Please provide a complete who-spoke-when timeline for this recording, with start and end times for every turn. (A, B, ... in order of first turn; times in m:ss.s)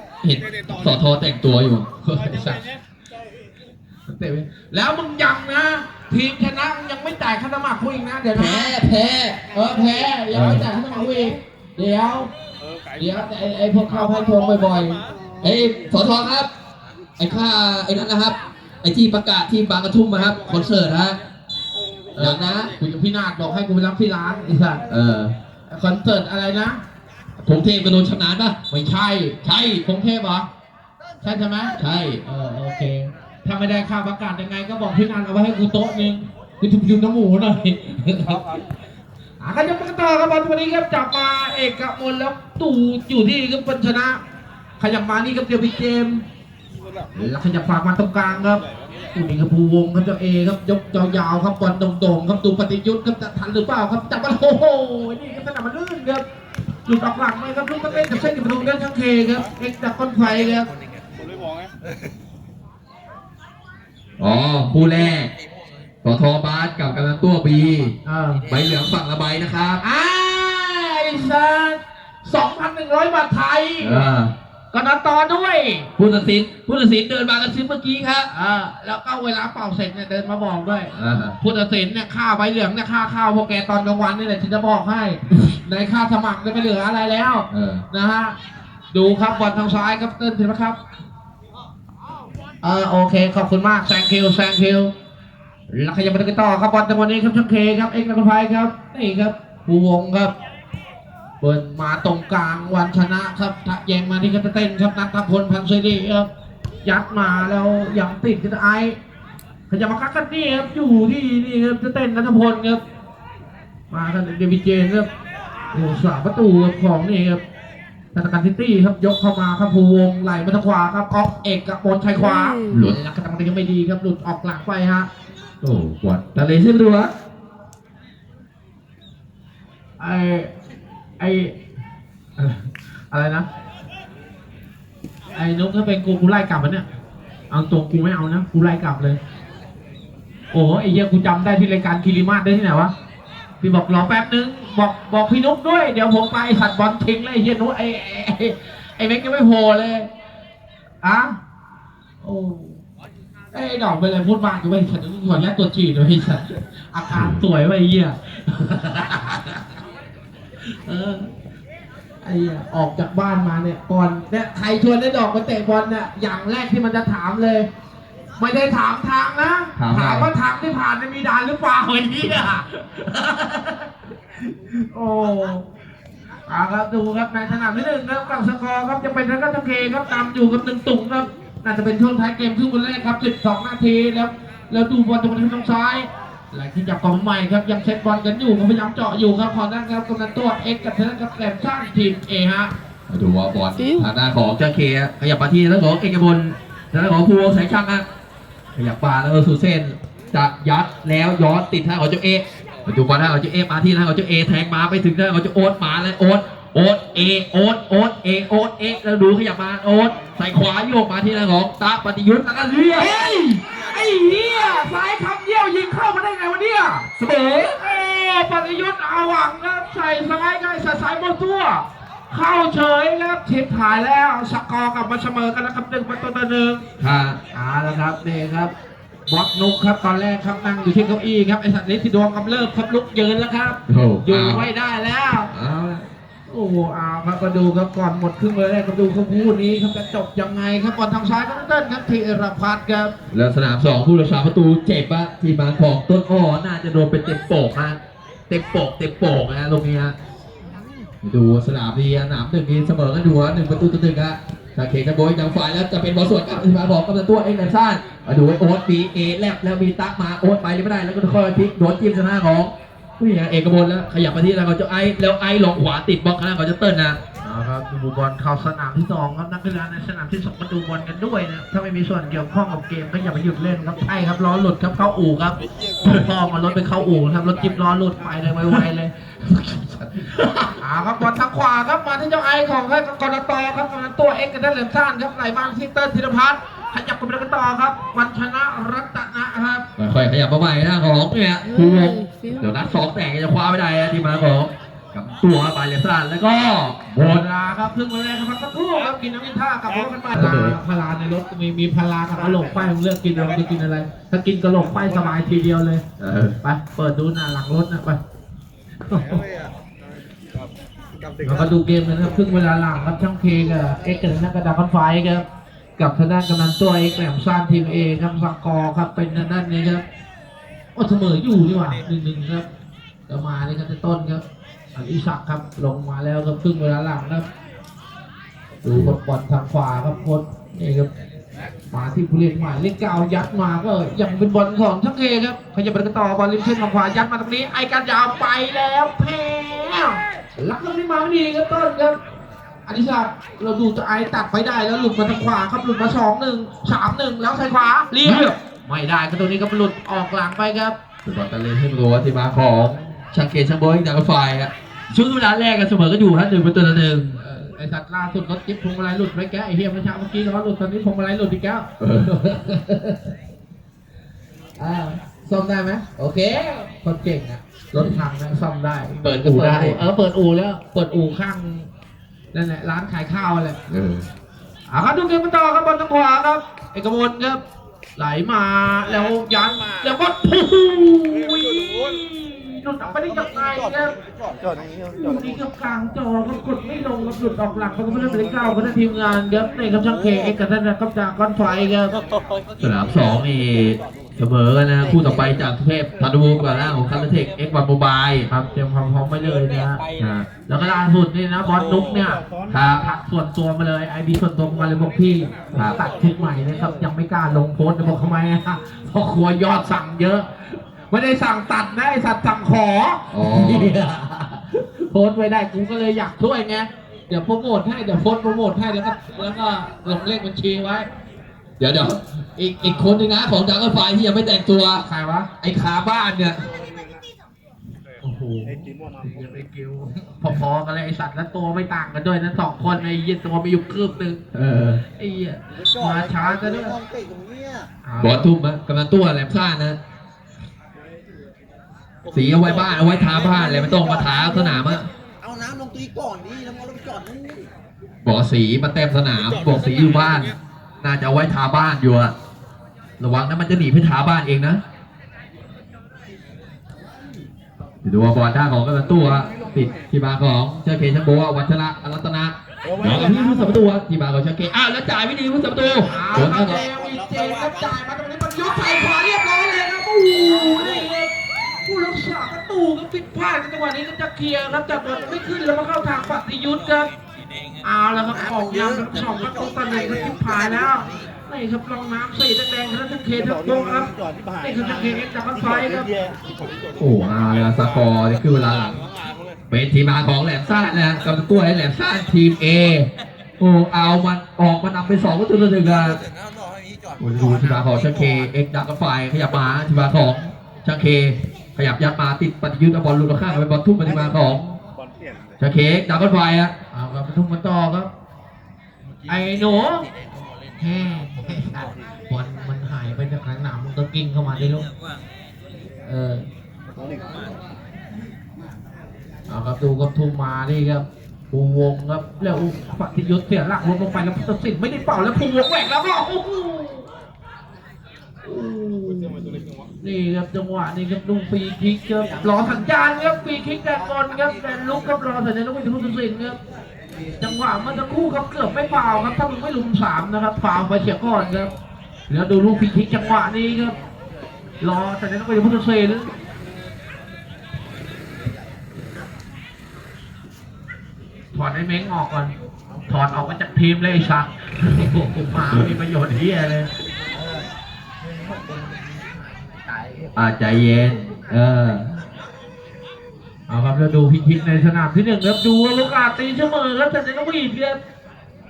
0:00.2-0:01.9 A
0:02.0-0:02.8 B
0:04.1-0:08.8 B
0:08.3-0:09.5 A
0:09.5-0:12.3 B
0:10.3-0:10.7 A
0:13.0-0:15.0 B
0:15.4-0:16.5 A
0:17.2-0:21.2 A
0:22.2-0:24.9 B
0:22.2-0:22.8 A
0:24.9-0:25.4 A
0:25.7-0:26.8 B
0:27.4-0:28.6 A
0:28.7-0:30.5 B
0:31.2-0:38.5 B
0:31.8-0:32.2 A
0:39.4-0:44.2 B
0:44.8-0:46.2 B
0:47.2-0:56.2 B
0:56.9-1:00.7 B
1:04.2-1:05.3 A
1:06.0-1:08.0 A
1:08.0-1:08.4 B
1:08.5-1:09.8 A
1:09.8-1:14.1 B
1:13.8-1:14.3 A
1:14.7-1:15.9 B
1:16.0-1:18.3 A
1:18.3-1:28.4 B
1:20.9-1:21.4 A
1:27.5-1:27.8 A
1:28.9-1:30.8 B
1:32.6-1:34.9 B
1:35.7-1:40.3 B
1:41.4-1:46.3 B
1:46.8-1:49.0 B
1:49.7-1:52.8 B
1:53.9-1:55.1 B
1:55.7-1:57.4 B
1:58.1-2:05.1 B
2:02.7-2:03.0 A
2:05.6-2:07.1 A
2:10.0-2:10.5 B
2:11.2-2:11.6 B
2:12.4-2:13.5 B
2:15.3-2:16.9 B
2:17.5-2:19.2 B
2:20.5-2:22.9 B
2:23.6-2:30.1 B
2:31.0-2:31.4 B
2:32.2-2:32.8 B
2:33.5-2:39.6 B
2:37.1-2:37.4 A
2:40.6-2:41.3 B
2:42.2-2:47.7 B
2:48.4-2:53.9 B
2:49.8-2:50.3 A
2:54.7-2:55.7 B
2:56.5-3:12.7 B
3:13.1-3:18.0 A
3:18.8-3:33.3 A
3:33.0-3:46.9 B
3:37.2-3:37.8 A
3:47.0-3:47.4 A
3:47.5-3:48.7 B
3:49.3-3:55.5 B
3:53.9-3:54.7 A
3:55.5-3:56.1 A
3:56.5-4:03.2 B
4:03.3-4:10.1 A
4:11.2-4:27.2 A
4:27.4-4:49.9 B
4:40.4-4:40.7 A
4:50.0-4:57.5 A
4:57.2-5:06.0 B
5:00.3-5:00.8 A
5:06.2-5:06.6 A
5:06.6-5:08.2 B
5:09.0-5:09.5 B
5:11.4-5:15.5 B
5:16.0-5:20.0 B
5:21.0-5:22.7 B
5:23.3-5:24.4 B
5:25.0-5:27.5 B
5:28.8-5:31.1 B
5:28.9-5:29.2 A
5:31.9-5:42.2 B
5:42.9-5:51.0 B
5:48.2-5:48.6 A
5:51.2-5:57.4 A
5:57.4-6:03.3 B
6:02.0-6:02.4 A
6:04.8-6:11.9 B
6:09.2-6:10.0 A
6:12.5-6:13.8 B
6:13.9-6:14.3 A
6:14.9-6:17.6 B
6:18.2-6:24.2 B
6:24.3-6:25.1 C
6:25.1-6:32.2 B
6:32.8-6:38.5 A
6:38.5-6:40.0 B
6:40.2-6:40.5 A
6:40.7-7:01.1 B
6:42.7-6:43.1 A
6:45.7-6:46.0 A
6:53.3-6:54.0 A
7:01.8-7:05.0 A
7:02.6-7:03.3 B
7:05.0-7:05.5 B
7:05.6-7:06.7 A
7:08.2-7:14.4 B
7:14.5-7:15.0 A
7:15.2-7:17.0 B
7:15.8-7:17.9 C
7:18.0-7:18.5 B
7:18.2-7:20.0 A
7:22.3-7:25.1 A
7:22.6-7:27.7 C
7:28.2-7:32.3 A
7:33.2-7:34.8 A
7:38.0-7:46.9 A
7:42.9-7:43.6 C
7:46.0-7:51.3 B
7:50.4-7:51.1 C
7:51.8-7:57.1 B
7:57.8-8:06.1 B
7:58.6-8:00.5 C
8:07.0-8:09.0 A
8:09.7-8:16.2 A
8:16.1-8:18.0 C
8:17.2-8:24.8 A
8:25.6-8:26.7 A
8:26.9-8:28.1 B
8:29.3-8:30.1 B
8:30.8-8:34.9 B
8:36.0-8:36.5 B
8:39.5-8:47.1 B
8:48.4-8:56.6 B
8:57.4-9:01.7 B
9:02.3-9:04.0 B
9:04.8-9:06.3 B
9:11.5-9:12.5 B
9:13.1-9:16.9 B
9:17.3-9:17.6 C
9:18.2-9:19.2 C
9:19.8-9:20.3 C
9:20.4-9:22.2 A
9:23.7-9:28.0 B